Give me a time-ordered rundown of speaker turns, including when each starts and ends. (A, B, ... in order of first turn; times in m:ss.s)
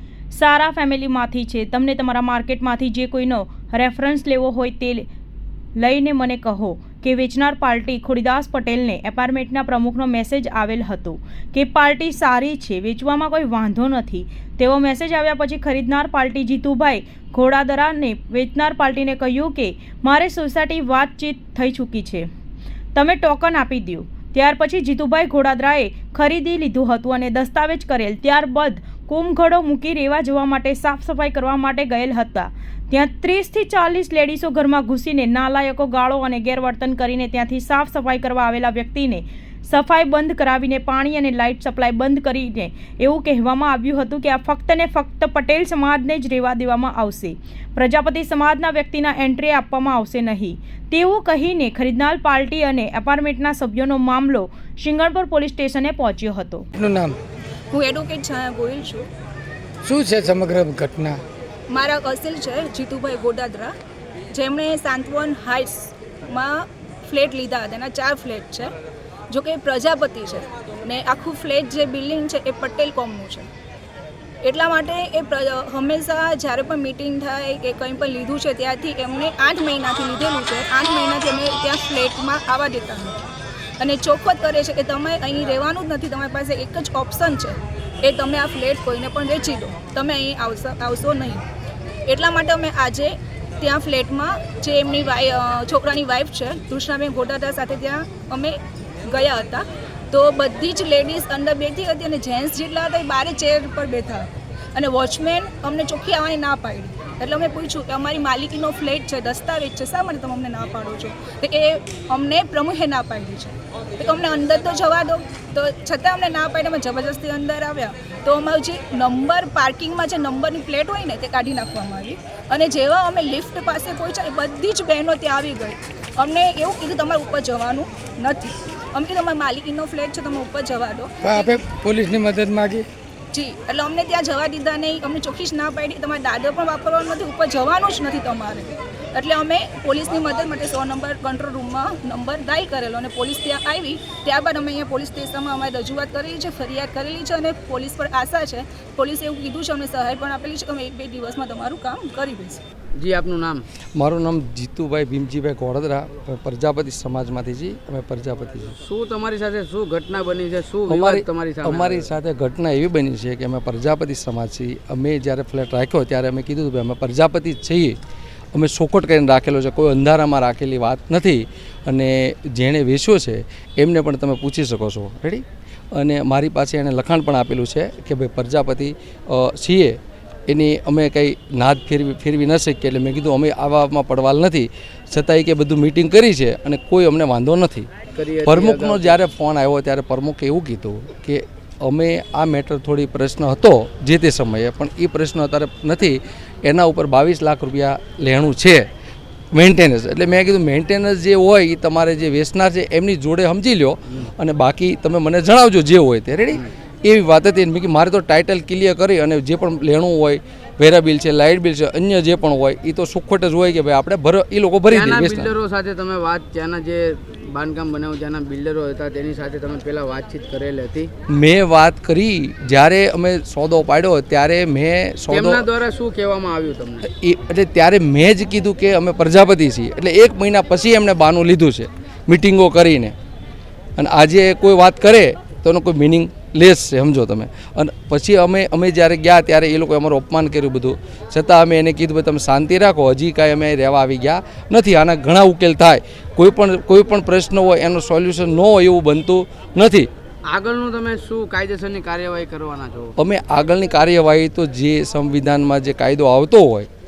0:00.3-0:05.1 A
0:05.8-0:22.3 A
0:22.9-0:56.6 A
0:56.7-0:57.2 B
0:57.7-0:59.1 C
0:59.8-1:01.2 B
1:01.7-1:03.7 C
1:04.3-1:08.7 C
1:09.3-1:13.5 C
1:14.4-1:23.2 C
1:23.8-1:31.4 C
1:32.1-2:11.5 C
2:11.2-2:12.8 B
2:13.3-2:32.6 C
2:33.0-2:33.6 D
2:34.0-2:38.8 E
2:38.8-2:42.0 D
2:40.9-2:48.0 E
2:48.5-3:07.9 E
3:08.1-3:09.2 D
3:08.4-3:18.9 E
3:19.5-3:35.5 E
3:34.9-3:41.1 D
3:41.3-3:45.7 E
3:45.3-3:47.1 D
3:47.0-3:53.1 E
3:54.0-4:10.1 E
4:10.5-4:13.1 D
4:13.2-4:16.9 E